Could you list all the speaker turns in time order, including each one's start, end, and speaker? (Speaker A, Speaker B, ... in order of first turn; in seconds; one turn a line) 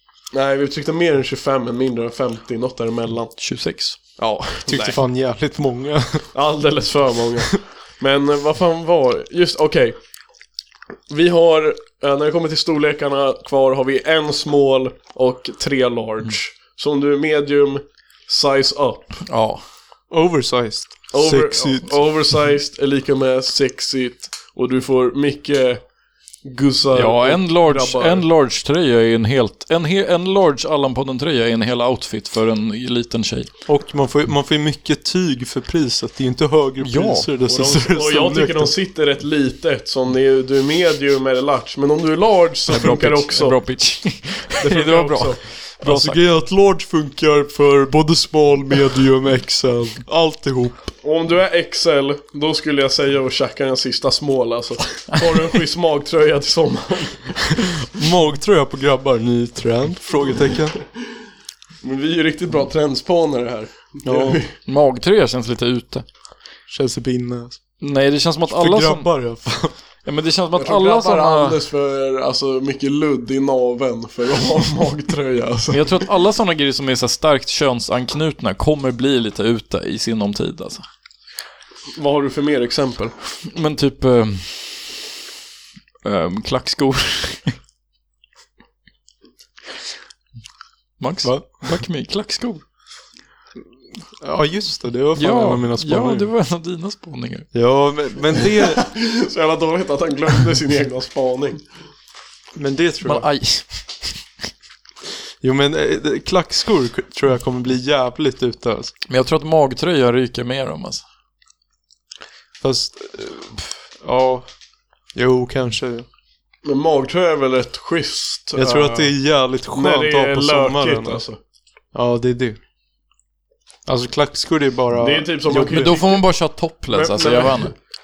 Speaker A: 0.3-3.3
Speaker B: 3.4-4.0
Speaker A: 4.2-5.0
Speaker C: 4.7-6.3
Speaker A: 6.3-10.0
Speaker A: 11.1-19.2
Speaker B: 19.3-19.6
Speaker C: 20.1-22.0
Speaker A: 21.1-25.8
Speaker A: 26.4-28.2
Speaker B: 26.9-33.5
Speaker C: 33.7-38.7
Speaker B: 36.8-37.3
Speaker A: 37.5-43.6
Speaker B: 42.7-46.2
Speaker A: 44.6-45.4
Speaker C: 45.8-50.9
Speaker A: 51.0-57.6
Speaker C: 57.9-60.8
Speaker A: 61.8-64.5
Speaker C: 64.0-64.4
Speaker B: 64.6-66.0
Speaker C: 66.7-67.6
Speaker B: 67.8-69.3
Speaker C: 68.5-69.7
Speaker B: 70.0-71.6
Speaker A: 70.6-76.0
Speaker B: 75.7-80.8
Speaker A: 82.0-83.2
Speaker B: 83.5-85.0
Speaker B: 86.0-87.5
Speaker B: 91.0-92.6
Speaker C: 91.2-91.8
Speaker C: 94.2-96.3
Speaker B: 95.2-97.5
Speaker C: 97.5-98.9
Speaker A: 98.7-101.7
Speaker C: 102.5-103.3
Speaker B: 103.0-104.1
Speaker C: 105.4-108.9
Speaker B: 109.1-111.0
Speaker C: 112.6-114.5
Speaker C: 115.1-116.1
Speaker A: 116.7-119.1
Speaker C: 118.6-121.2
Speaker A: 119.7-121.4
Speaker C: 121.9-122.6
Speaker C: 123.9-126.0
Speaker A: 125.0-126.2
Speaker B: 125.7-127.7
Speaker A: 126.9-127.7